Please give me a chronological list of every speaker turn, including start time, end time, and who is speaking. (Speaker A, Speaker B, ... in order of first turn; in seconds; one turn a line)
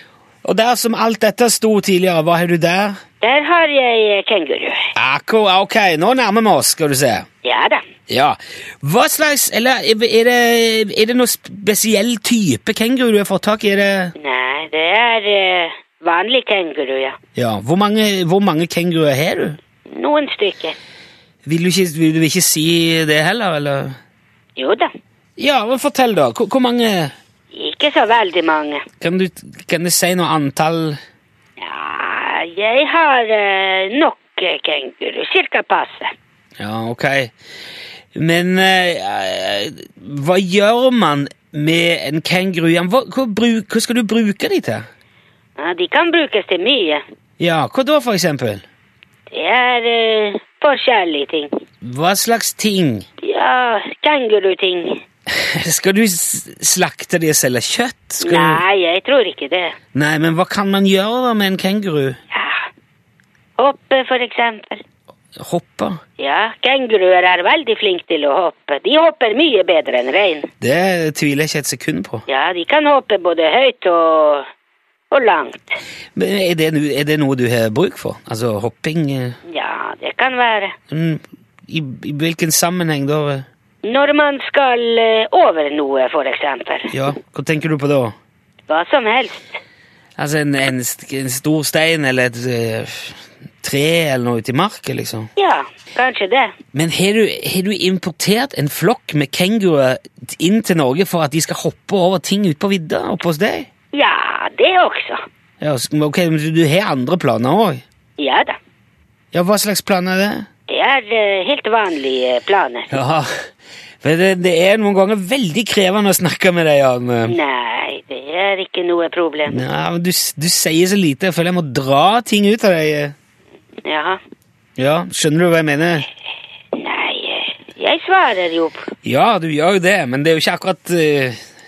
Speaker A: 0.4-3.0
Speaker B: 3.2-4.9
Speaker A: 4.9-7.2
Speaker B: 7.4-7.8
Speaker A: 8.1-14.1
Speaker B: 14.2-17.2
Speaker A: 17.4-19.6
Speaker B: 19.9-20.8
Speaker A: 21.4-23.9
Speaker B: 24.6-24.9
Speaker A: 25.4-27.1
Speaker B: 27.5-28.9
Speaker A: 29.0-31.0
Speaker B: 31.6-36.1
Speaker A: 36.6-37.3
Speaker A: 38.1-44.8
Speaker B: 45.6-47.0
Speaker A: 47.4-48.6
Speaker B: 49.3-51.5
Speaker A: 51.8-53.0
Speaker B: 53.2-55.0
Speaker A: 55.3-58.6
Speaker B: 58.2-59.7
Speaker A: 59.9-62.2
Speaker B: 62.3-62.7
Speaker B: 63.6-64.8
Speaker A: 65.3-66.0
Speaker B: 66.2-70.5
Speaker A: 70.6-72.2
Speaker B: 72.3-74.5
Speaker B: 75.1-75.8
Speaker A: 76.2-79.4
Speaker B: 79.5-80.7
Speaker A: 80.9-83.4
Speaker B: 83.8-86.9
Speaker A: 86.9-88.1
Speaker B: 88.7-89.6
Speaker A: 90.2-95.3
Speaker B: 95.3-96.5
Speaker A: 96.7-103.7
Speaker B: 103.9-105.2
Speaker A: 105.6-107.8
Speaker B: 108.2-108.6
Speaker A: 109.3-110.5
Speaker B: 110.7-112.9
Speaker A: 112.9-113.3
Speaker A: 114.0-117.3
Speaker B: 117.2-119.6
Speaker A: 119.5-123.1
Speaker B: 123.8-124.2
Speaker A: 124.8-126.1
Speaker B: 126.7-128.9
Speaker A: 129.0-131.4